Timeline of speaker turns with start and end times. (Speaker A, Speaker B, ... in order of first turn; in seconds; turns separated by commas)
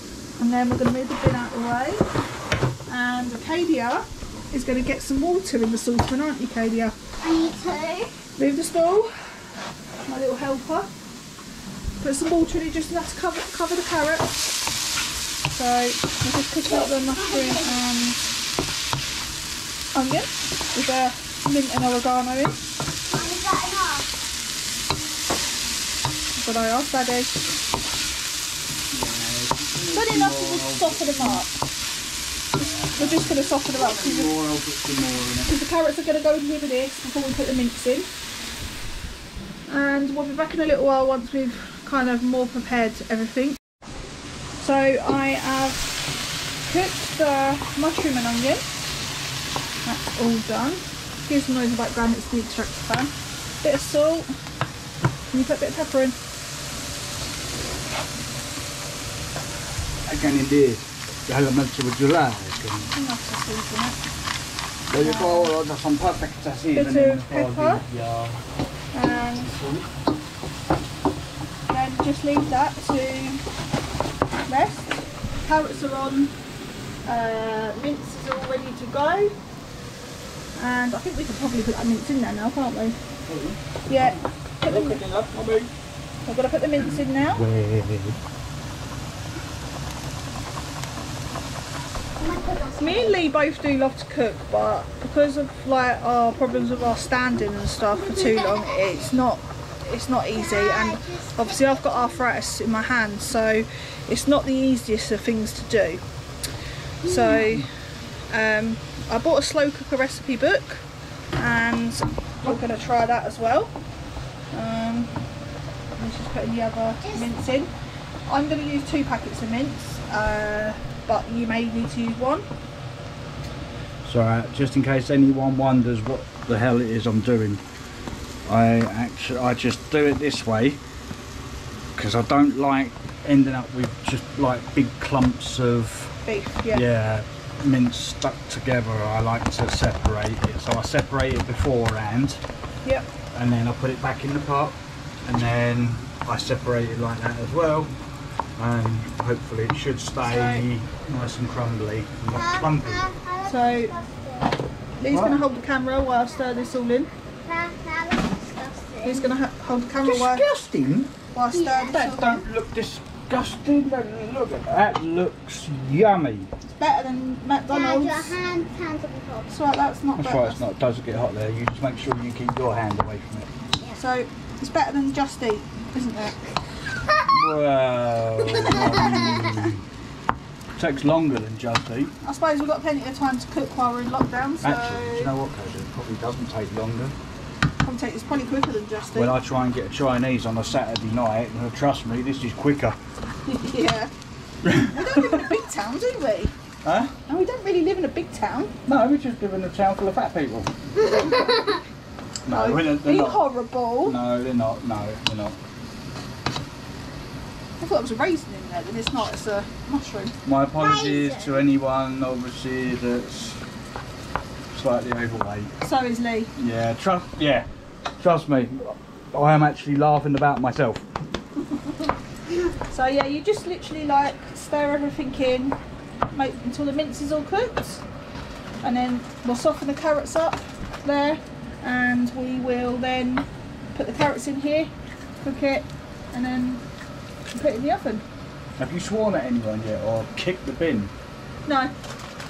Speaker A: 0.4-2.1, Speaker A: 2.9-7.0, Speaker B: 7.2-8.1, Speaker A: 8.4-9.1, Speaker A: 10.1-10.9, Speaker A: 12.0-14.5, Speaker A: 15.5-18.2, Speaker B: 17.1-17.6, Speaker A: 19.9-22.6, Speaker B: 23.1-24.1, Speaker A: 26.4-27.4, Speaker C: 28.9-31.4, Speaker A: 29.9-31.6, Speaker C: 32.5-35.5, Speaker A: 33.0-34.4, Speaker A: 35.5-38.1, Speaker A: 39.7-43.6, Speaker A: 44.6-46.0, Speaker A: 46.6-48.6, Speaker A: 49.9-54.3, Speaker A: 55.3-56.2, Speaker C: 60.1-62.9, Speaker A: 63.0-64.0, Speaker C: 64.9-68.4, Speaker A: 65.0-65.5, Speaker A: 66.7-67.8, Speaker A: 68.9-69.6, Speaker C: 69.4-69.9, Speaker A: 71.7-73.4, Speaker A: 74.5-76.3, Speaker A: 77.0-79.3, Speaker A: 80.6-83.0, Speaker C: 83.3-85.7, Speaker A: 83.9-85.0, Speaker A: 86.3-87.4, Speaker C: 87.3-88.2, Speaker B: 92.2-93.2, Speaker A: 92.8-106.0, Speaker B: 98.0-99.0, Speaker B: 100.3-102.5, Speaker A: 107.0-107.7, Speaker B: 107.0-107.3, Speaker A: 108.3-110.8, Speaker A: 111.4-113.7, Speaker A: 114.5-115.2, Speaker A: 116.0-117.7, Speaker A: 118.3-122.5, Speaker C: 124.0-127.6, Speaker C: 128.5-130.8, Speaker C: 132.0-136.2, Speaker A: 136.3-136.8, Speaker C: 136.7-142.4, Speaker C: 143.3-147.9, Speaker C: 148.6-153.0, Speaker A: 150.2-150.6, Speaker B: 152.3-154.6, Speaker A: 153.4-153.9, Speaker A: 155.0-157.1, Speaker C: 155.1-155.4, Speaker B: 156.4-156.7, Speaker B: 157.4-159.3, Speaker A: 159.0-160.5, Speaker C: 160.0-161.2, Speaker A: 161.3-162.5, Speaker B: 161.5-162.0, Speaker C: 161.9-166.5, Speaker A: 166.7-168.4, Speaker B: 167.7-169.6, Speaker A: 169.5-170.6, Speaker C: 170.2-173.5, Speaker A: 174.0-176.4, Speaker C: 177.3-179.8, Speaker B: 178.6-179.4, Speaker C: 180.8-182.1, Speaker A: 182.2-185.3, Speaker C: 184.6-187.2, Speaker A: 187.8-189.3, Speaker C: 189.2-193.0, Speaker A: 193.5-194.1, Speaker C: 194.6-195.5, Speaker A: 194.7-196.5, Speaker C: 196.8-197.2, Speaker A: 197.3-198.8, Speaker C: 198.9-200.7, Speaker B: 201.1-201.6, Speaker C: 202.4-203.5, Speaker A: 202.5-204.2, Speaker C: 204.0-205.6, Speaker A: 207.8-210.4, Speaker C: 210.4-213.6, Speaker B: 210.8-211.6, Speaker C: 214.7-215.7, Speaker A: 215.8-216.5, Speaker C: 216.6-217.7, Speaker C: 218.2-221.1, Speaker A: 222.9-225.8, Speaker A: 226.3-228.0, Speaker A: 228.8-234.9, Speaker A: 235.4-236.8, Speaker A: 237.5-238.2, Speaker C: 238.8-241.1, Speaker A: 241.7-241.9